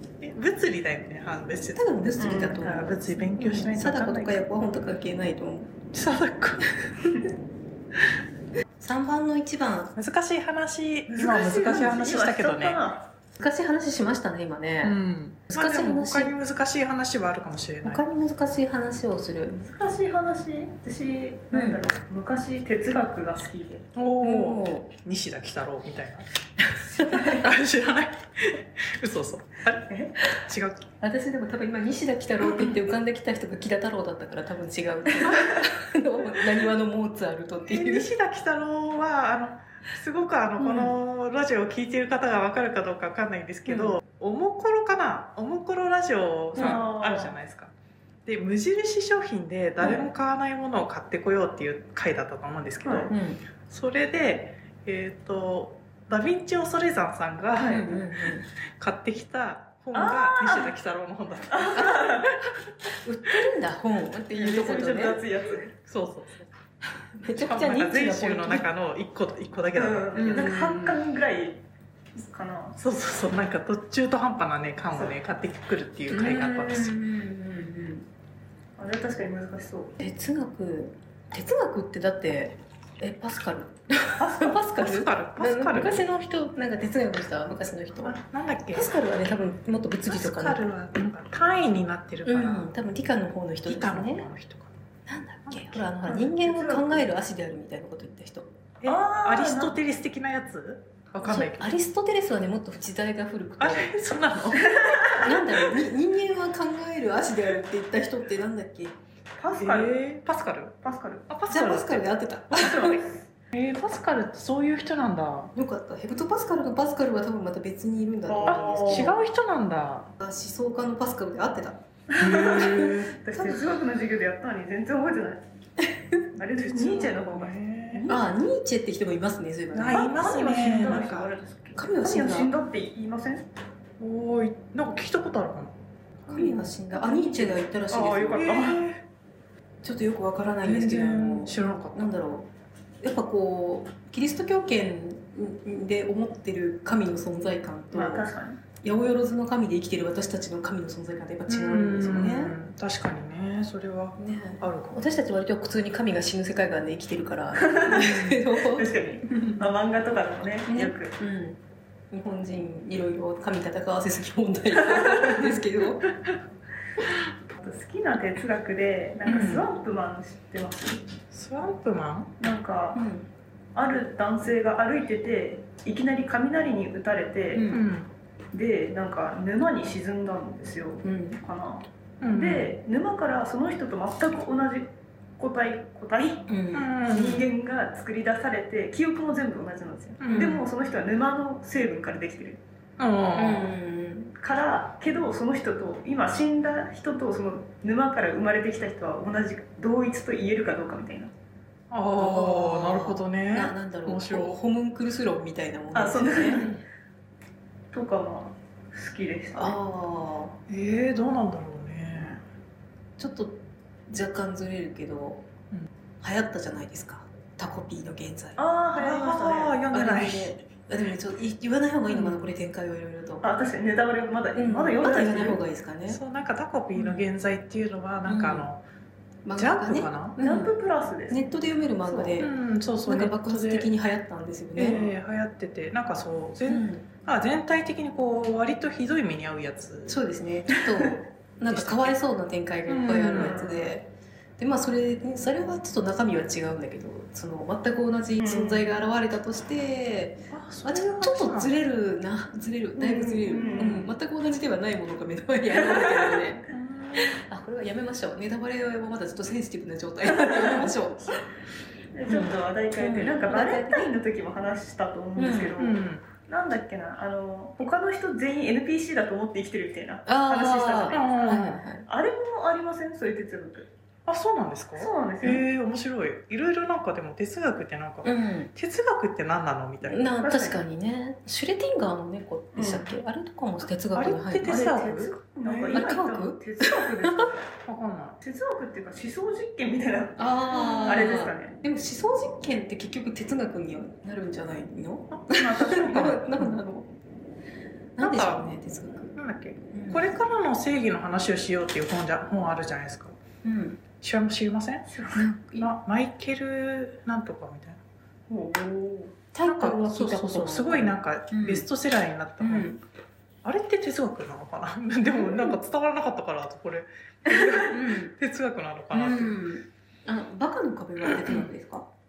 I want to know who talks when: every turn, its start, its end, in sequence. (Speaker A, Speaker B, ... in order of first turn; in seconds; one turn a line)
Speaker A: 0.2-1.9
Speaker B: 1.8-5.8
Speaker C: 2.2-3.0
Speaker A: 2.6-4.5
Speaker A: 5.9-6.7
Speaker B: 8.8-9.9
Speaker A: 10.0-12.8
Speaker C: 11.1-13.1
Speaker B: 13.4-15.0
Speaker A: 14.8-18.0
Speaker B: 15.5-16.3
Speaker B: 17.8-19.7
Speaker C: 19.6-23.9
Speaker B: 21.5-21.8
Speaker A: 23.9-26.3
Speaker B: 24.2-24.9
Speaker C: 27.0-27.5
Speaker B: 27.0-27.4
Speaker A: 27.3-30.9
Speaker C: 29.9-30.1
Speaker B: 31.0-38.1
Speaker A: 32.5-32.7
Speaker A: 37.7-47.7
Speaker B: 40.6-41.0
Speaker B: 43.7-44.0
Speaker C: 46.6-47.4
Speaker A: 48.3-53.1
Speaker C: 52.8-53.1
Speaker B: 53.1-53.4
Speaker A: 53.7-62.5
Speaker C: 57.6-57.9
Speaker B: 57.6-58.5
Speaker C: 59.9-60.7
Speaker C: 61.5-62.3
Speaker B: 61.8-62.1
Speaker B: 63.0-65.2
Speaker C: 64.3-65.7
Speaker A: 65.8-66.5
Speaker B: 67.1-68.7
Speaker A: 67.3-70.9
Speaker C: 69.8-71.6
Speaker B: 70.2-70.9
Speaker C: 72.2-72.8
Speaker A: 72.8-76.9
Speaker B: 76.1-78.1
Speaker C: 78.8-80.0
Speaker B: 80.0-88.2
Speaker C: 84.2-84.6
Speaker A: 84.7-86.1
Speaker A: 88.0-88.9
Speaker B: 88.7-90.7
Speaker A: 90.1-92.7
Speaker B: 92.2-94.3
Speaker A: 93.7-94.7
Speaker B: 95.1-98.5
Speaker A: 95.5-95.8
Speaker C: 96.0-97.1
Speaker A: 98.8-101.8
Speaker C: 98.8-99.8
Speaker B: 101.2-104.0
Speaker A: 103.6-105.7
Speaker C: 104.7-105.1
Speaker B: 105.1-109.0
Speaker C: 109.4-110.1
Speaker A: 109.5-110.8
Speaker C: 110.8-111.3
Speaker A: 111.3-115.5
Speaker B: 111.5-113.1
Speaker B: 115.5-119.2
Speaker C: 118.3-119.2
Speaker A: 118.5-120.1
Speaker B: 120.2-121.8
Speaker C: 122.1-125.4
Speaker A: 122.2-123.1
Speaker B: 125.8-126.3
Speaker C: 126.3-128.2
Speaker A: 126.6-128.1
Speaker B: 128.1-130.2
Speaker A: 129.7-131.3
Speaker C: 129.9-133.5
Speaker B: 131.8-132.5
Speaker A: 134.0-136.6
Speaker B: 136.3-138.4
Speaker C: 137.0-138.8
Speaker A: 138.3-139.0
Speaker B: 139.8-142.5
Speaker A: 140.6-142.2
Speaker B: 143.0-148.3
Speaker C: 147.9-148.6
Speaker B: 148.8-152.6
Speaker A: 151.5-155.0
Speaker B: 154.2-159.7
Speaker C: 157.6-161.1
Speaker A: 157.9-158.4
Speaker B: 160.7-161.6
Speaker B: 162.1-166.1
Speaker C: 164.9-165.4
Speaker C: 167.6-171.0
Speaker A: 169.3-169.6
Speaker A: 171.3-172.3
Speaker C: 172.4-173.0
Speaker B: 172.9-173.3
Speaker C: 173.8-177.7
Speaker B: 177.5-177.8
Speaker A: 177.7-178.1
Speaker C: 178.5-186.5
Speaker B: 181.0-181.4
Speaker A: 182.2-182.8
Speaker B: 186.5-186.9
Speaker A: 186.7-187.5
Speaker C: 187.0-192.6
Speaker A: 190.2-190.6
Speaker B: 190.3-190.6
Speaker A: 193.0-193.7
Speaker B: 193.3-194.3
Speaker C: 194.4-201.3
Speaker A: 201.9-204.6
Speaker B: 202.2-206.7
Speaker C: 205.9-206.8
Speaker C: 207.9-209.8
Speaker B: 209.5-210.6
Speaker A: 210.7-212.4
Speaker B: 213.2-215.5
Speaker B: 216.2-218.7
Speaker C: 218.6-219.8
Speaker A: 218.9-220.6
Speaker B: 219.9-223.5
Speaker A: 222.1-222.5
Speaker C: 223.4-225.6
Speaker B: 224.6-226.2
Speaker A: 226.1-228.8
Speaker B: 227.0-227.2
Speaker B: 228.2-228.7
Speaker B: 229.4-230.7
Speaker A: 229.6-230.4
Speaker C: 230.4-231.5
Speaker B: 231.3-232.5
Speaker C: 232.0-232.4
Speaker A: 232.4-233.9
Speaker B: 233.0-235.0
Speaker A: 234.8-240.2
Speaker C: 234.8-235.1
Speaker B: 236.7-237.1
Speaker B: 240.1-244.1
Speaker A: 241.7-242.2
Speaker A: 242.9-243.7
Speaker C: 243.3-243.9
Speaker B: 244.6-256.7
Speaker C: 248.4-248.9
Speaker A: 250.5-251.8
Speaker C: 253.0-254.1
Speaker C: 255.8-256.4
Speaker A: 256.7-257.4
Speaker B: 257.2-261.4
Speaker C: 260.3-260.9
Speaker C: 262.1-271.3
Speaker B: 262.3-264.1
Speaker B: 265.4-265.8
Speaker A: 265.8-266.2
Speaker B: 270.3-272.1
Speaker A: 271.1-271.8
Speaker C: 272.1-273.9
Speaker A: 274.3-280.3
Speaker C: 275.0-275.6
Speaker B: 278.2-278.7
Speaker B: 280.0-284.8
Speaker C: 280.4-280.8
Speaker C: 282.8-283.2
Speaker A: 284.1-286.1
Speaker C: 284.6-287.7
Speaker B: 285.9-287.5
Speaker A: 287.9-288.4
Speaker C: 288.4-291.8
Speaker B: 290.4-297.1
Speaker A: 295.3-296.8
Speaker B: 298.2-299.3
Speaker A: 298.2-298.7
Speaker A: 299.4-303.4
Speaker B: 299.9-300.3
Speaker B: 303.6-304.0
Speaker A: 304.2-305.1
Speaker C: 305.1-305.4
Speaker B: 305.4-305.9
Speaker A: 305.8-308.0
Speaker C: 308.5-309.4
Speaker B: 309.5-311.9
Speaker A: 309.6-312.9
Speaker B: 312.6-313.0
Speaker A: 313.6-319.6
Speaker B: 317.9-318.3
Speaker B: 319.1-322.1
Speaker A: 321.3-321.7